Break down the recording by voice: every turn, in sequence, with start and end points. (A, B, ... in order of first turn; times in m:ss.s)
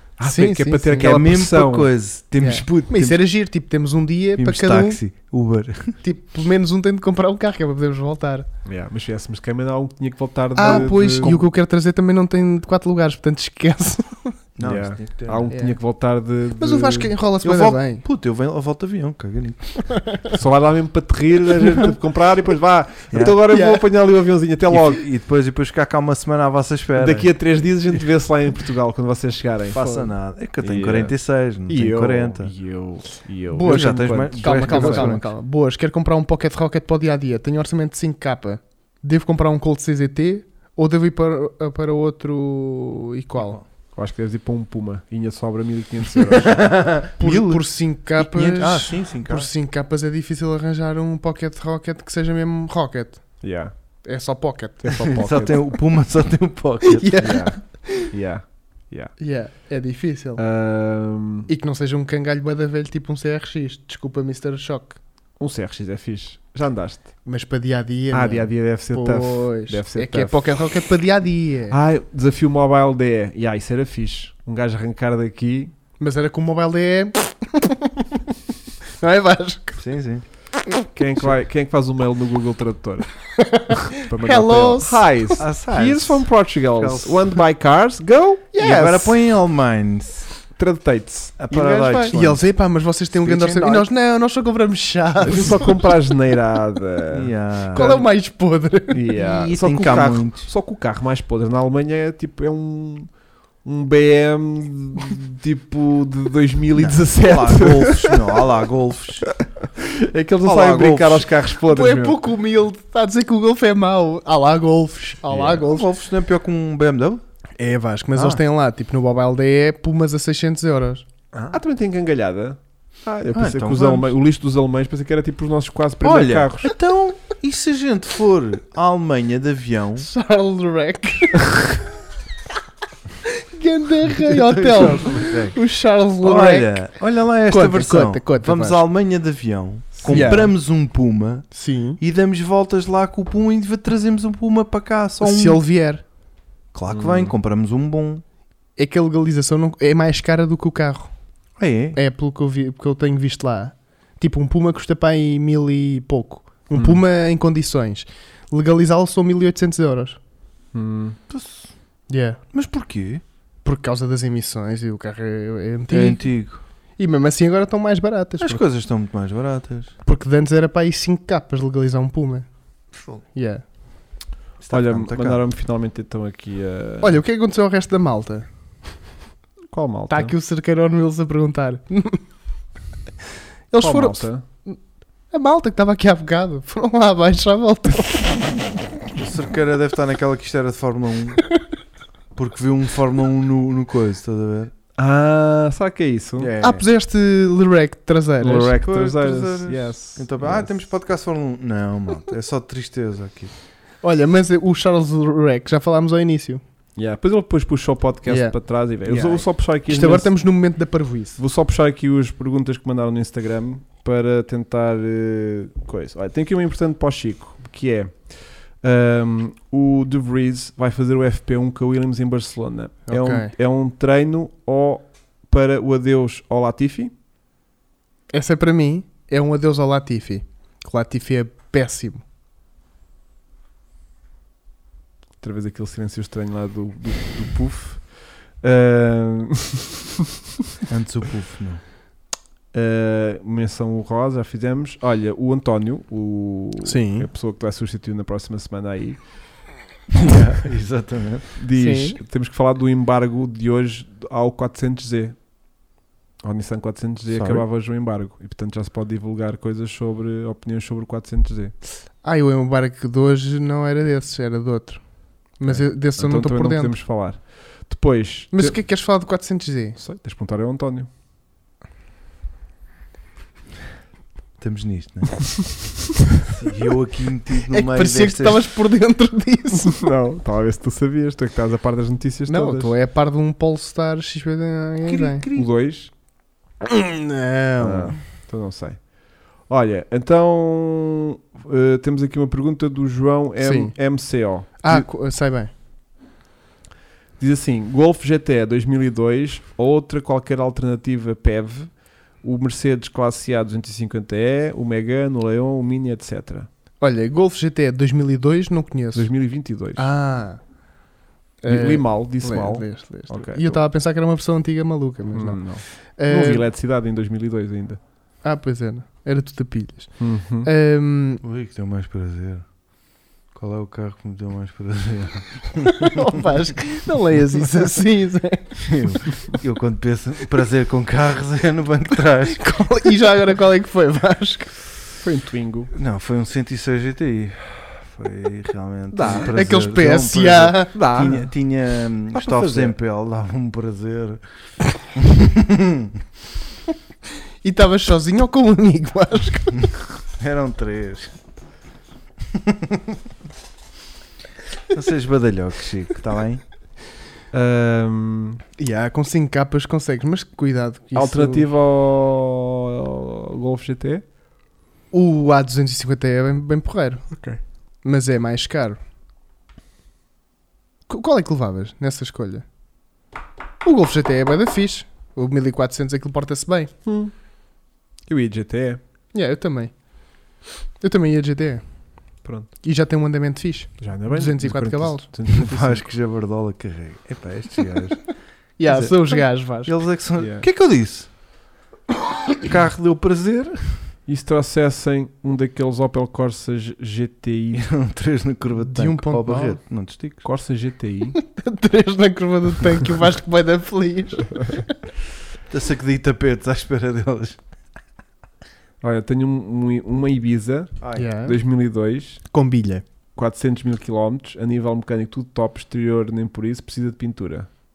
0:00.2-0:01.9 A
0:00.2-0:01.2 B
0:01.0-0:03.2 C
0:02.4-0:05.0 B
0:04.4-0:06.0 C
0:06.0-0:08.5 B
0:08.6-0:11.4 A
0:10.6-0:14.4 B
0:10.6-0:11.4 C
0:14.6-0:15.5 C
0:14.6-0:17.1 A
0:15.5-0:15.8 B
0:16.6-0:18.0 B
0:17.4-0:19.8 C
0:19.9-0:20.2 B
0:20.3-0:25.0 A
0:23.1-0:23.4 C
0:23.5-0:23.8 B
0:24.7-0:27.3 C
0:27.0-0:29.9 A
0:29.7-0:32.5 C
0:30.6-0:31.1 A
0:31.6-0:35.1 A
0:33.5-0:43.6 B
0:33.6-0:35.3 C
0:43.9-0:46.8 A
0:46.5-0:49.5 C
0:47.2-0:53.4 B
0:53.4-0:53.7 A
0:54.0-0:55.0 B
0:54.8-0:55.7 A
0:55.0-0:57.3 C
0:56.8-0:58.1 B
0:57.2-0:59.2 A
0:59.2-1:00.4 B
1:00.4-1:01.5 A
1:01.5-1:05.0 B
1:05.4-1:07.1 A
1:07.2-1:11.8 B
1:08.1-1:10.5 A
1:11.7-1:15.7 A
1:16.0-1:18.3 B
1:19.0-1:19.8 B
1:19.8-1:20.2 C
1:20.9-1:23.1 A
1:23.4-1:25.4 B
1:23.9-1:29.2 A
1:25.4-1:27.4 C
1:28.6-1:30.3 C
1:30.6-1:32.3 A
1:31.4-1:32.4 C
1:32.1-1:35.8 B
1:33.1-1:33.9 C
1:35.2-1:37.3 A
1:37.1-1:38.0 C
1:37.7-1:39.0 B
1:38.9-1:43.1 A
1:39.1-1:40.5 C
1:43.6-1:48.5 A
1:46.7-1:49.3 C
1:49.8-1:52.2 A
1:50.4-1:51.3 C
1:51.7-1:55.9 B
1:55.3-1:55.6 A
1:55.4-1:57.2 C
1:57.6-2:01.0 B
1:58.1-1:58.4 C
2:01.3-2:01.6 C
2:01.5-2:06.7 A
2:03.3-2:04.1 C
2:06.0-2:10.1 C
2:10.0-2:11.6 B
2:13.4-2:16.9 B
2:14.1-2:15.6 C
2:16.2-2:25.6 C
2:17.4-2:18.8 B
2:19.9-2:20.4 A
2:20.1-2:20.5 B
2:21.5-2:22.0 B
2:25.2-2:26.0 B
2:26.7-2:28.2 C
2:26.9-2:27.3 A
2:28.8-2:31.1 B
2:31.6-2:32.0 C
2:31.9-2:40.2 B
2:36.7-2:37.0 A
2:40.7-2:41.2 A
2:41.3-2:41.7 C
2:42.1-2:42.4 B
2:42.5-2:43.2 C
2:43.6-2:46.3 B
2:45.9-2:46.6 C
2:47.0-2:48.6 B
2:48.4-2:49.9 C
2:50.0-2:52.5 B
2:53.3-2:53.6 B
2:54.6-2:55.4 C
2:54.7-2:57.2 A
2:57.0-2:58.5 B
2:59.7-3:00.3 A
3:00.1-3:02.2 B
3:03.7-3:04.8 B
3:03.8-3:04.4 A
3:05.3-3:08.6 B
3:09.2-3:11.4 C
3:12.3-3:14.7 C
3:15.0-3:16.5 A
3:16.4-3:16.8 C
3:16.6-3:18.8 B
3:18.4-3:20.7 A
3:18.8-3:23.5 C
3:24.0-3:26.6 B
3:27.0-3:30.3 A
3:28.3-3:31.4 B
3:31.4-3:47.1 A
3:43.1-3:43.5 B
3:48.3-3:52.2 B
3:55.4-3:58.1 A
3:58.6-3:59.9 A
4:00.9-4:01.8 C
4:02.7-4:09.3 A
4:06.8-4:07.3 B
4:10.1-4:11.5 C
4:11.6-4:15.4 A
4:11.7-4:12.2 B
4:16.4-4:21.7 A
4:17.3-4:17.6 C
4:22.2-4:26.9 B
4:25.6-4:28.8 A
4:28.5-4:30.0 B
4:30.0-4:31.1 A
4:34.6-4:35.6 C
4:36.4-4:38.6 C
4:37.7-4:40.0 B
4:39.8-4:42.9 A
4:42.5-4:45.4 B
4:45.1-4:45.7 C
4:45.5-4:46.1 A
4:46.8-4:48.2 B
4:47.8-4:49.1 A
4:49.6-4:55.1 A
4:53.6-4:54.0 B
4:54.8-4:55.7 B
4:57.4-5:06.7 A
5:07.0-5:09.3 B
5:09.1-5:10.1 A
5:09.9-5:10.6 B
5:11.6-5:16.6 B
5:11.6-5:13.8 A
5:15.3-5:18.0 A
5:18.4-5:21.4 B
5:20.2-5:20.7 A
5:21.4-5:22.7 C
5:23.5-5:26.2 C
5:25.8-5:28.8 B
5:28.8-5:33.0 C
5:32.4-5:34.7 B
5:35.2-5:35.9 A
5:35.9-5:44.4 C
5:39.1-5:39.5 A
5:39.3-5:40.9 B
5:40.9-5:41.5 A
5:42.3-5:42.9 A
5:45.1-5:46.2 C
5:47.6-5:49.9 B
5:50.4-5:51.3 C
5:52.5-5:53.2 C
5:54.9-5:56.6 C
5:57.5-5:58.6 A
5:58.8-6:01.6 B
6:01.1-6:04.2 A
6:05.1-6:07.3 B
6:07.3-6:07.6 A
6:08.0-6:09.0 B
6:11.1-6:12.6 B
6:13.8-6:16.9 B
6:17.0-6:17.3 A
6:18.3-6:19.0 A
6:19.3-6:19.9 B
6:21.0-6:21.8 B
6:22.4-6:22.7 A
6:22.8-6:25.2 B
6:24.0-6:26.0 A
6:25.5-6:28.3 C
6:28.8-6:29.9 B
6:28.8-6:31.3 C
6:30.4-6:30.6 A
6:32.6-6:34.0 C
6:34.3-6:37.9 A
6:37.7-6:40.4 C
6:38.8-6:39.8 B
6:40.4-6:41.4 A
6:41.3-6:44.9 B
6:45.7-6:47.6 C
6:49.0-6:52.4 A
6:51.0-6:51.3 C
6:51.2-6:51.6 B
6:52.5-6:53.0 B
6:53.4-6:57.7 A